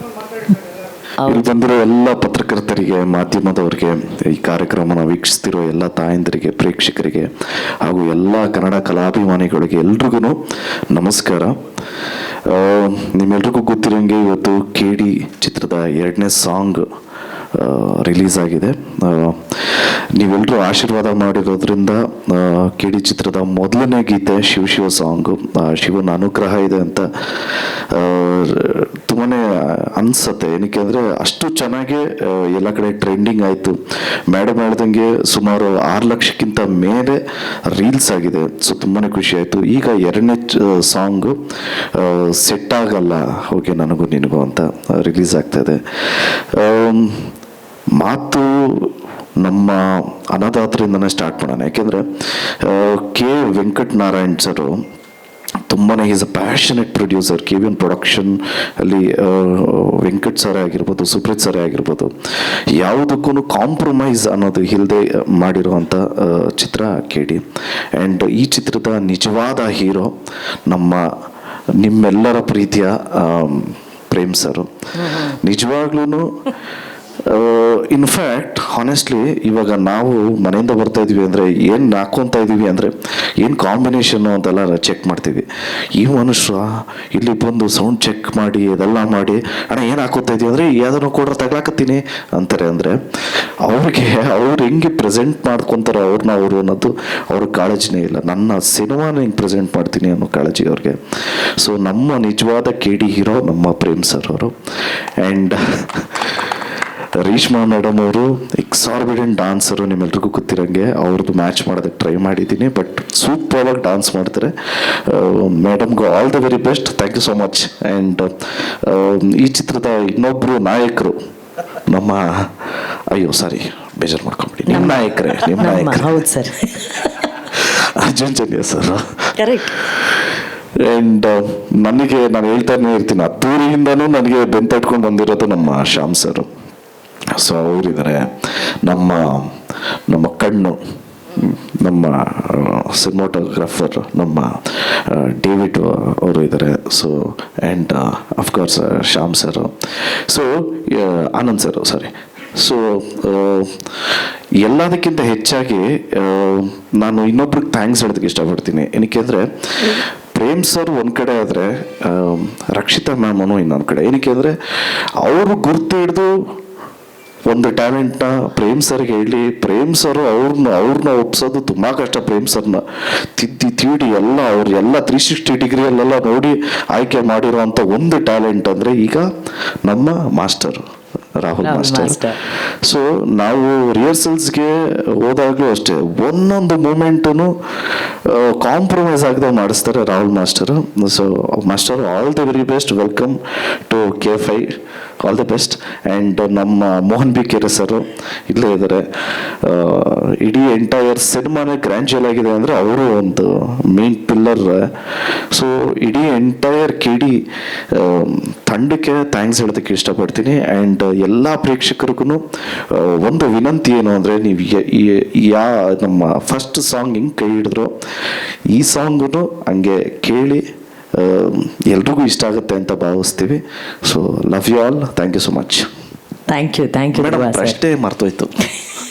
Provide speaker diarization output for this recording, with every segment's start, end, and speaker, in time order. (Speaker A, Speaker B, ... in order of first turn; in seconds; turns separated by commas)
Speaker A: 1.3-7.3, Speaker A: 7.8-10.4, Speaker A: 10.9-11.6, Speaker A: 12.4-16.8, Speaker A: 17.5-33.8, Speaker A: 34.3-41.4, Speaker A: 41.9-47.3, Speaker A: 48.0-52.0, Speaker A: 52.6-54.8, Speaker A: 55.7-62.1, Speaker A: 62.7-67.4, Speaker A: 68.0-70.1, Speaker A: 70.7-71.0, Speaker A: 71.8-76.3, Speaker B: 75.0-75.3, Speaker A: 77.3-85.4, Speaker A: 86.0-93.0, Speaker A: 93.7-101.0, Speaker A: 101.6-104.5, Speaker A: 105.2-106.5, Speaker A: 107.2-121.2, Speaker A: 121.9-122.5, Speaker A: 123.1-126.2, Speaker B: 124.7-127.1, Speaker A: 127.5-130.3, Speaker B: 129.4-129.7, Speaker A: 130.8-136.5, Speaker A: 137.4-138.3, Speaker A: 138.8-139.5, Speaker A: 140.1-140.8, Speaker A: 141.3-149.7, Speaker A: 150.3-153.7, Speaker A: 154.6-164.6, Speaker A: 165.2-166.3, Speaker A: 167.5-172.8, Speaker A: 173.3-179.3, Speaker A: 179.8-180.8, Speaker A: 181.4-182.2, Speaker B: 181.6-182.4, Speaker A: 182.8-187.5, Speaker A: 188.2-193.4, Speaker A: 193.9-194.7, Speaker A: 195.2-199.1, Speaker A: 199.6-204.9, Speaker A: 205.5-207.4, Speaker A: 207.9-217.9, Speaker A: 218.7-220.6, Speaker A: 221.1-225.9, Speaker B: 226.5-227.8, Speaker A: 227.1-228.6